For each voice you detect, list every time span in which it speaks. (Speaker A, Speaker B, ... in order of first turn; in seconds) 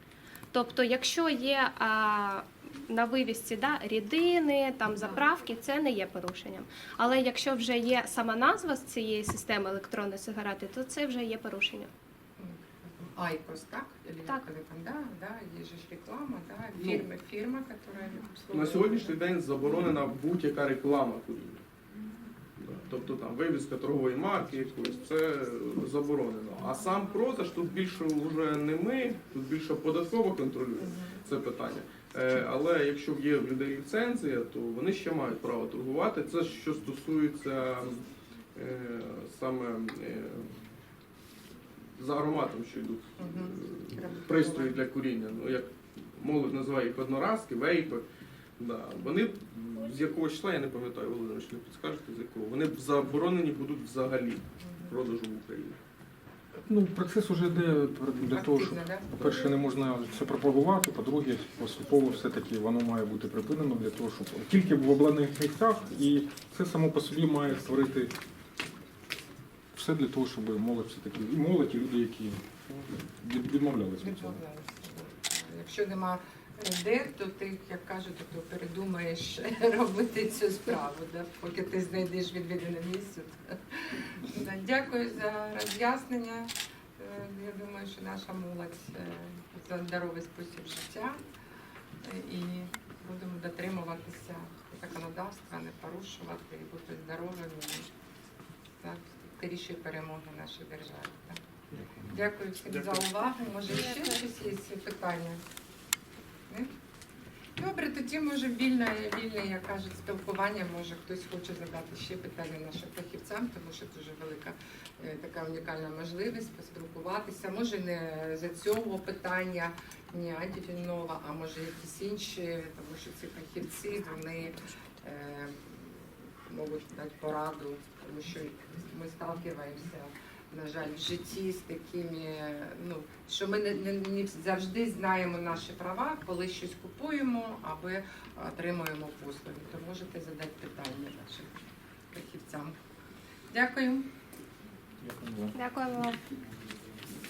Speaker A: 0.5-11.9, 145.6-146.2
Speaker B: 12.4-19.2, 30.8-31.1, 43.2-44.8, 54.6-54.9, 58.3-59.1, 74.0-91.2, 92.0-97.9, 98.8-101.4, 102.0-105.4, 107.6-141.5, 142.1-142.8, 143.5-144.1
Speaker C: 16.8-17.1, 18.5-21.6, 22.6-38.0, 38.5-40.5, 41.9-48.0, 48.6-55.8
Speaker D: 56.7-68.1, 69.7-72.4, 73.2-74.4, 145.0-145.6